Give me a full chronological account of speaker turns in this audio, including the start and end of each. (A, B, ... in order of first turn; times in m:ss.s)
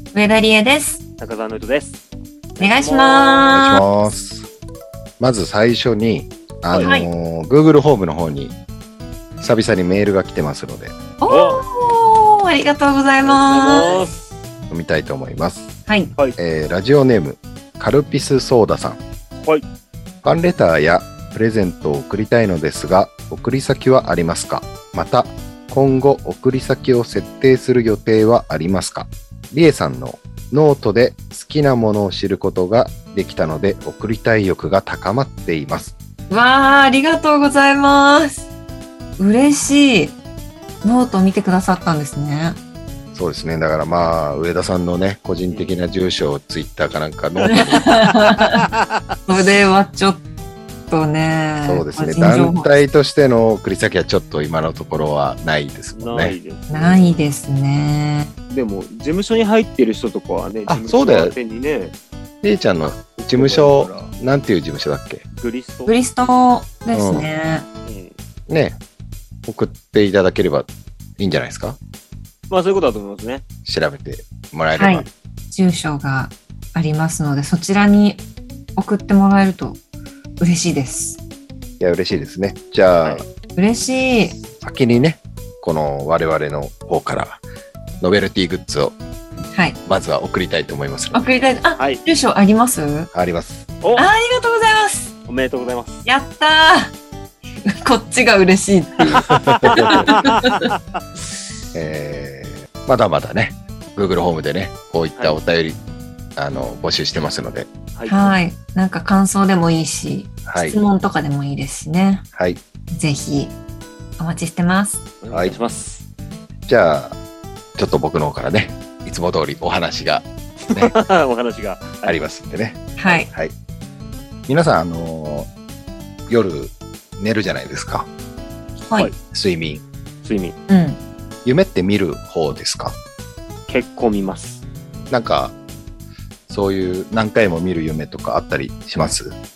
0:00.1-0:01.0 A
0:01.2-0:02.0 B
0:02.6-0:03.6 B
0:02.6-0:03.8 A
0:03.5-0:04.5 C
0:05.2-0:08.6 C
0:06.8-0:07.1 A
0:09.4-0:10.9 C
0:11.2-0:14.1 A
0:11.3-0:11.6 B
0:13.2-0:14.2 B
0:14.7-0:15.7 C
0:15.9-0:16.2 A
0:16.4-0:19.0 C
0:20.2-0:35.9 C
0:36.3-0:38.5 A
0:39.2-0:40.2 A
0:40.8-0:42.6 A
0:43.1-0:48.0 C
0:47.5-0:48.6 A
0:47.9-0:48.7 B
0:49.3-0:50.2 A
0:50.9-0:52.8 A
0:51.7-0:56.4 C
0:55.9-0:57.3 B
0:56.7-0:58.3 A
0:58.5-1:01.9 B
1:00.7-1:01.4 C
1:02.4-1:05.2 C
1:02.8-1:04.1 B
1:05.3-1:05.9 B
1:05.9-1:07.7 A
1:06.9-1:07.3 C
1:07.8-1:08.1 B
1:08.5-1:08.8 C
1:09.5-1:11.8 C
1:12.5-1:13.4 B
1:13.7-1:15.1 C
1:14.8-1:18.2 A
1:18.8-1:19.8 A
1:20.4-1:21.2 A
1:21.8-1:23.2 C
1:23.6-1:24.4 A
1:24.6-1:27.4 C
1:28.0-1:29.0 C
1:29.5-1:29.8 A
1:29.9-1:31.3 C
1:31.1-1:33.1 A
1:33.1-1:33.6 C
1:33.8-1:34.1 B
1:34.0-1:35.1 A
1:35.3-1:36.0 B
1:36.0-1:36.9 A
1:37.6-1:40.7 A
1:39.1-1:40.1 C
1:39.3-1:40.7 B
1:41.7-1:45.8 C
1:46.4-1:47.7 C
1:48.0-1:48.4 B
1:48.1-1:52.3 A
1:50.5-1:50.8 C
1:52.3-1:52.6 C
1:52.9-1:53.6 A
1:54.2-1:55.0 A
1:55.2-1:56.0 B
1:55.3-1:55.6 C
1:56.7-1:57.2 C
1:57.8-2:01.0 C
2:00.7-2:02.2 B
2:02.0-2:03.5 C
2:03.0-2:03.3 A
2:04.5-2:05.5 C
2:06.3-2:08.1 C
2:09.3-2:09.8 C
2:10.2-2:10.6 B
2:10.7-2:11.0 A
2:11.4-2:13.0 C
2:13.7-2:14.6 B
2:15.1-2:15.6 C
2:16.5-2:19.4 C